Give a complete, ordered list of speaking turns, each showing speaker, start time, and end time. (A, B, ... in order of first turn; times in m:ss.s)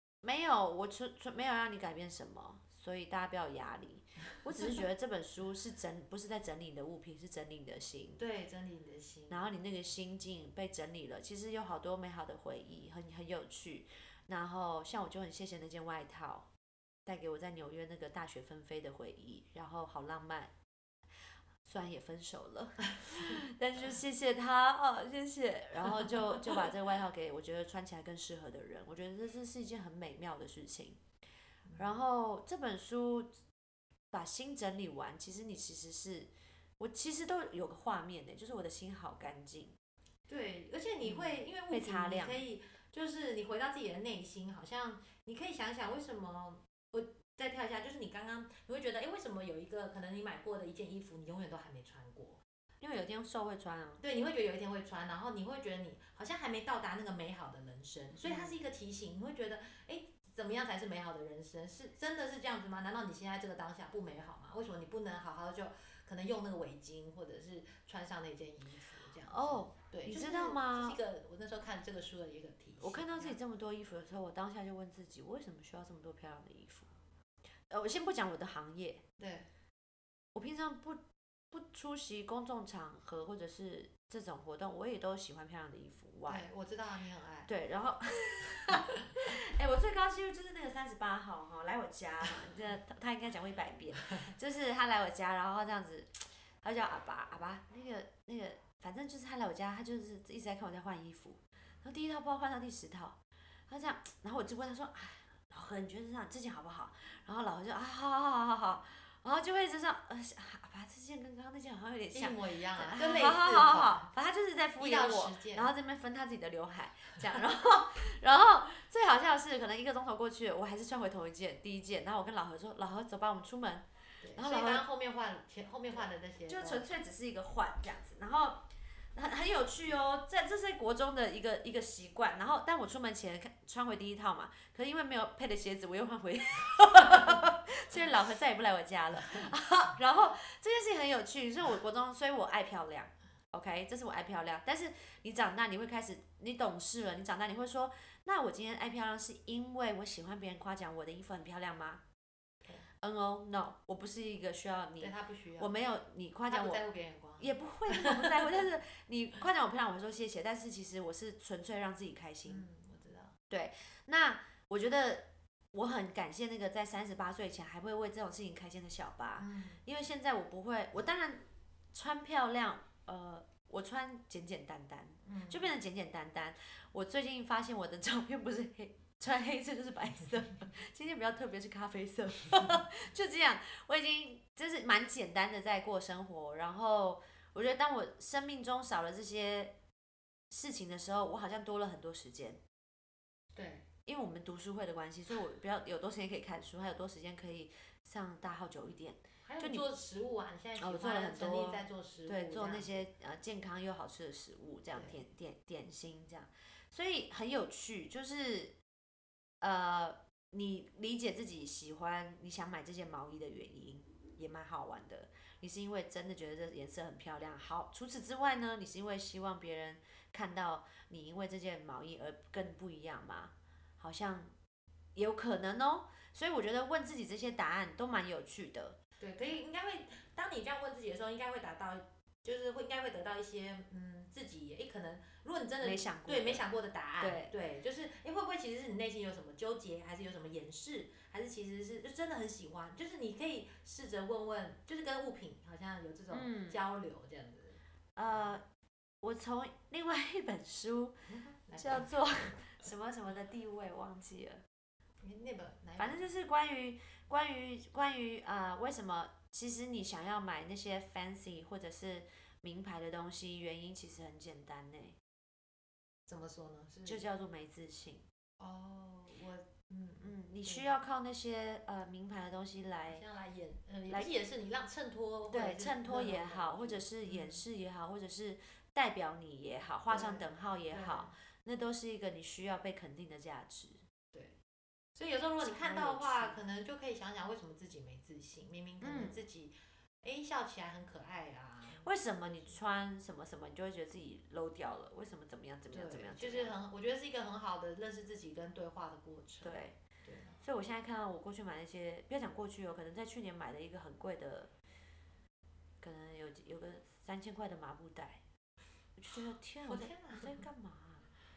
0:00.2-0:08.2 A
0:08.2-0:09.5 B
0:09.3-0:16.5 A
0:17.0-0:20.5 A
0:21.6-0:31.0 A
0:31.6-0:32.0 B
0:31.8-0:33.3 A
0:34.1-0:39.8 A
0:40.3-0:52.4 B
0:41.0-0:42.5 A
0:52.8-0:54.0 A
0:54.0-1:13.4 B
0:58.2-0:58.5 A
1:09.3-1:11.0 A
1:12.8-1:16.9 A
1:17.7-1:19.0 A
1:19.2-1:19.5 B
1:20.3-1:26.5 A
1:26.3-1:27.5 B
1:27.5-2:04.8 A
1:52.1-1:54.1 B
1:54.8-1:55.7 B
2:04.2-2:06.8 B
2:06.5-2:32.0 A
2:33.0-2:36.8 A
2:35.0-2:35.7 B
2:36.5-2:38.6 B
2:37.4-2:42.6 A
2:42.4-2:43.4 B
2:43.5-3:09.8 A
2:49.4-2:49.8 B
2:55.2-2:55.7 B
3:10.5-3:12.6 A
3:13.6-3:13.9 B
3:14.1-3:19.9 A
3:19.4-3:23.1 B
3:20.8-3:28.8 A
3:24.9-3:25.2 B
3:29.6-3:44.5 A
3:45.1-3:49.0 A
3:49.2-4:07.8 B
3:55.8-3:56.6 A
3:57.2-3:57.5 A
4:06.3-4:06.8 A
4:08.2-4:08.6 A
4:09.2-4:11.2 A
4:11.3-4:12.5 B
4:11.8-4:14.6 A
4:15.2-4:16.3 B
4:16.0-4:25.2 A
4:26.3-4:27.2 B
4:27.1-4:28.3 A
4:28.6-4:30.9 B
4:30.2-4:33.2 A
4:33.1-4:37.6 B
4:35.5-4:44.0 A
4:40.1-4:41.3 B
4:44.3-4:44.6 B
4:45.1-4:52.8 B
4:45.6-4:46.6 A
4:49.0-4:49.4 A
4:52.0-4:56.8 A
4:55.9-5:00.6 B
4:59.6-5:00.0 A
5:00.6-5:04.7 A
5:06.0-5:08.4 A
5:09.2-5:11.3 A
5:09.8-5:10.6 B